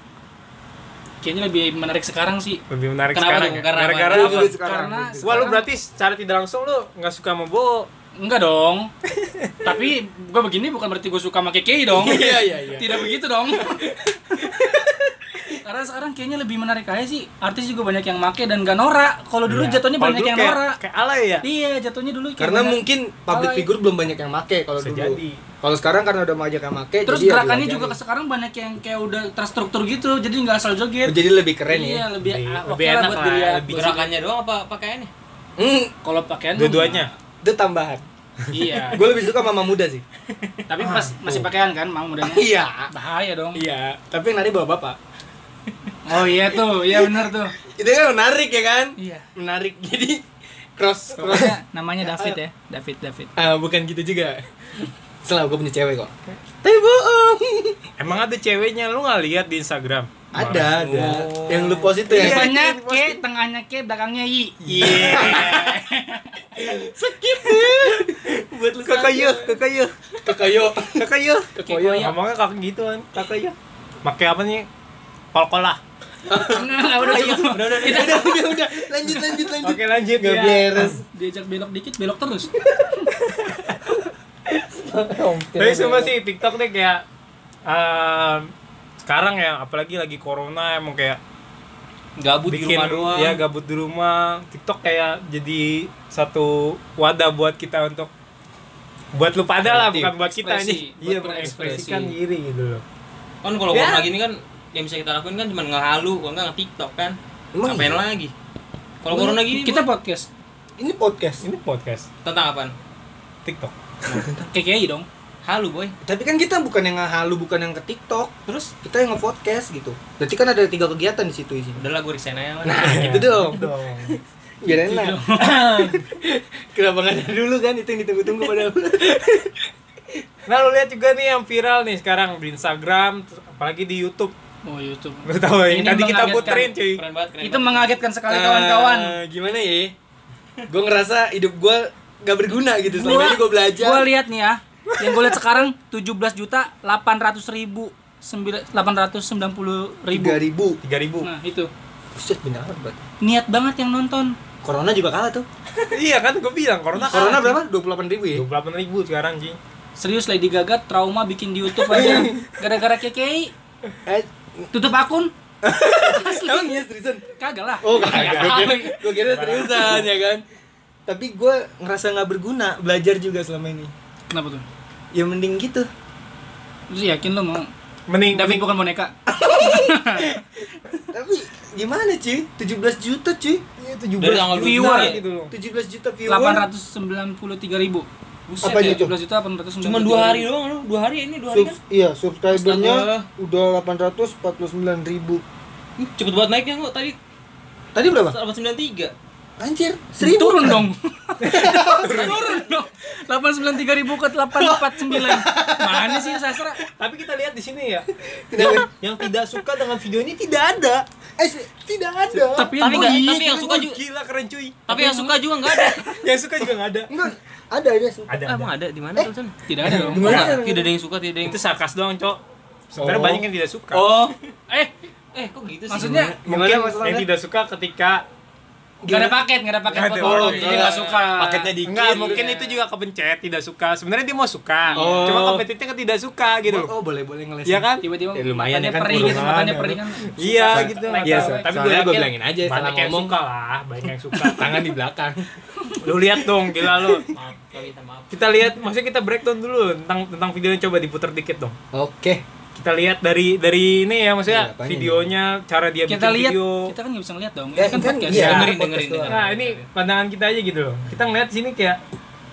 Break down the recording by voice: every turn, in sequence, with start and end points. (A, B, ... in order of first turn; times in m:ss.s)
0:01.2-0:02.6 A
0:02.7-0:04.5 B
0:03.1-0:04.6 C
0:04.1-0:05.5 D
0:04.3-0:05.6 A
0:05.2-0:07.9 B
0:08.2-0:08.9 A
0:09.2-0:09.7 B
0:09.6-0:14.4 A
0:11.9-0:15.5 D
0:15.6-0:20.8 A
0:19.5-0:21.4 B
0:21.4-0:23.7 A
0:22.4-0:28.0 D
0:24.8-0:25.4 B
0:27.1-0:31.2 A
0:31.0-0:32.1 D
0:31.7-0:34.0 A
0:32.2-0:34.1 B
0:33.7-0:35.1 C
0:35.6-0:35.9 D
0:36.0-0:37.1 A
0:36.6-0:37.1 B
0:37.4-0:38.0 D
0:38.5-0:38.9 B
0:38.5-0:39.1 A
0:38.9-0:40.0 D
0:40.7-0:43.6 A
0:40.8-0:41.4 B
0:42.2-0:42.9 D
0:43.5-0:45.0 D
0:46.1-0:47.5 A
0:46.1-0:50.2 D
0:49.0-0:49.3 A
0:50.8-0:52.4 D
0:51.2-0:53.3 A
0:53.4-0:57.8 D
0:58.0-1:01.2 B
1:00.3-1:02.5 D
1:00.7-1:01.9 C
1:02.1-1:03.2 B
1:02.1-1:06.4 A
1:04.6-1:05.7 D
1:04.7-1:05.8 B
1:06.6-1:09.6 D
1:08.8-1:09.9 B
1:10.2-1:12.1 D
1:10.9-1:14.7 B
1:11.6-1:12.2 A
1:15.3-1:15.8 B
1:16.3-1:21.0 D
1:16.4-1:18.4 A
1:17.1-1:18.4 C
1:19.6-1:21.0 B
1:21.1-1:23.1 A
1:23.1-1:23.8 B
1:24.5-1:26.2 D
1:25.6-1:27.0 B
1:27.7-1:28.5 B
1:29.0-1:31.2 B
1:32.2-1:33.4 C
1:32.5-1:38.1 B
1:39.1-1:42.8 B
1:39.6-1:40.1 D
1:40.2-1:42.2 A
1:43.4-1:48.3 C
1:43.7-1:44.0 B
1:47.5-1:48.0 D
1:49.0-1:49.9 C
1:49.2-1:50.3 A
1:50.8-1:51.4 D
1:51.4-1:52.1 B
1:52.2-1:52.7 C
1:53.4-1:54.3 B
1:54.1-1:54.5 D
1:54.5-1:55.1 A
1:55.4-1:56.0 C
1:56.0-2:01.8 D
1:58.5-1:58.7 C
2:01.8-2:03.2 C
2:02.6-2:10.2 D
2:02.8-2:04.2 B
2:04.7-2:05.6 A
2:05.5-2:06.0 B
2:10.5-2:14.3 B
2:14.6-2:16.7 A
2:15.2-2:17.0 B
2:16.5-2:17.9 C
2:17.4-2:19.2 A
2:18.3-2:19.9 D
2:20.7-2:24.1 D
2:22.9-2:30.4 A
2:30.1-2:30.8 D
2:30.8-2:31.3 B
2:31.2-2:31.7 A
2:32.2-2:33.0 D
2:33.2-2:34.4 A
2:34.6-2:35.5 D
2:35.9-2:37.6 B
2:37.0-2:37.5 A
2:37.1-2:38.4 D
2:38.3-2:39.6 B
2:40.0-2:43.5 A
2:41.8-2:42.4 D
2:44.1-2:44.7 D
2:44.7-2:45.3 A
2:45.6-2:47.2 D
2:46.0-2:46.8 A
2:47.4-2:49.1 A
2:47.8-2:50.4 D
2:48.0-2:50.1 B
2:51.1-2:53.9 D
2:54.3-2:54.6 A
2:55.1-2:55.9 D
2:56.9-2:57.7 A
2:58.1-2:58.7 B
2:58.3-3:00.4 A
2:59.3-3:00.4 D
3:01.1-3:03.6 D
3:03.8-3:05.5 B
3:04.2-3:05.2 C
3:04.6-3:05.2 A
3:05.5-3:06.7 D
3:06.3-3:08.1 A
3:08.5-3:09.1 C
3:08.6-3:09.2 D
3:08.8-3:10.5 A
3:09.8-3:11.8 C
3:11.5-3:15.4 D
3:12.5-3:13.3 C
3:16.0-3:17.2 C
3:18.0-3:18.4 D
3:18.2-3:19.1 C
3:19.6-3:20.9 D
3:20.2-3:26.8 A
3:21.4-3:22.5 B
3:21.4-3:22.4 D
3:24.5-3:26.6 D
3:27.0-3:31.1 B
3:28.3-3:28.9 D
3:31.4-3:32.8 D
3:32.3-3:33.6 A
3:32.8-3:34.0 C
3:32.9-3:34.9 B
3:34.9-3:36.1 C
3:34.9-3:35.4 A
3:36.1-3:37.1 B
3:37.1-3:38.4 D
3:38.3-3:38.7 B
3:38.5-3:39.6 C
3:39.7-3:40.5 A
3:39.8-3:40.9 D
3:39.9-3:40.5 B
3:40.1-3:41.6 C
3:41.4-3:42.4 B
3:42.9-3:44.1 B
3:43.0-3:44.4 D
3:45.3-3:46.3 C
3:45.9-3:46.4 A
3:46.0-3:47.3 D
3:46.5-3:48.2 B
3:49.0-3:49.4 D
3:49.1-3:51.7 A
3:49.9-3:50.7 B
3:50.2-3:52.5 D
3:50.2-3:51.3 C
3:51.8-3:56.9 B
3:52.2-3:52.6 A
3:54.9-3:55.4 A
3:55.0-3:55.7 D
3:56.6-3:59.9 D
3:57.6-3:58.1 B
3:58.0-4:01.7 A
3:59.1-4:04.9 B
4:00.7-4:03.4 D
4:04.4-4:05.5 D
4:06.0-4:07.3 B
4:06.8-4:07.2 D
4:07.3-4:08.4 C
4:08.3-4:11.8 B
4:11.9-4:12.4 D
4:12.7-4:16.9 B
4:14.4-4:15.3 D
4:16.1-4:18.6 A
4:17.7-4:19.4 D
4:18.3-4:19.8 C
4:18.3-4:18.7 B
4:19.3-4:22.0 B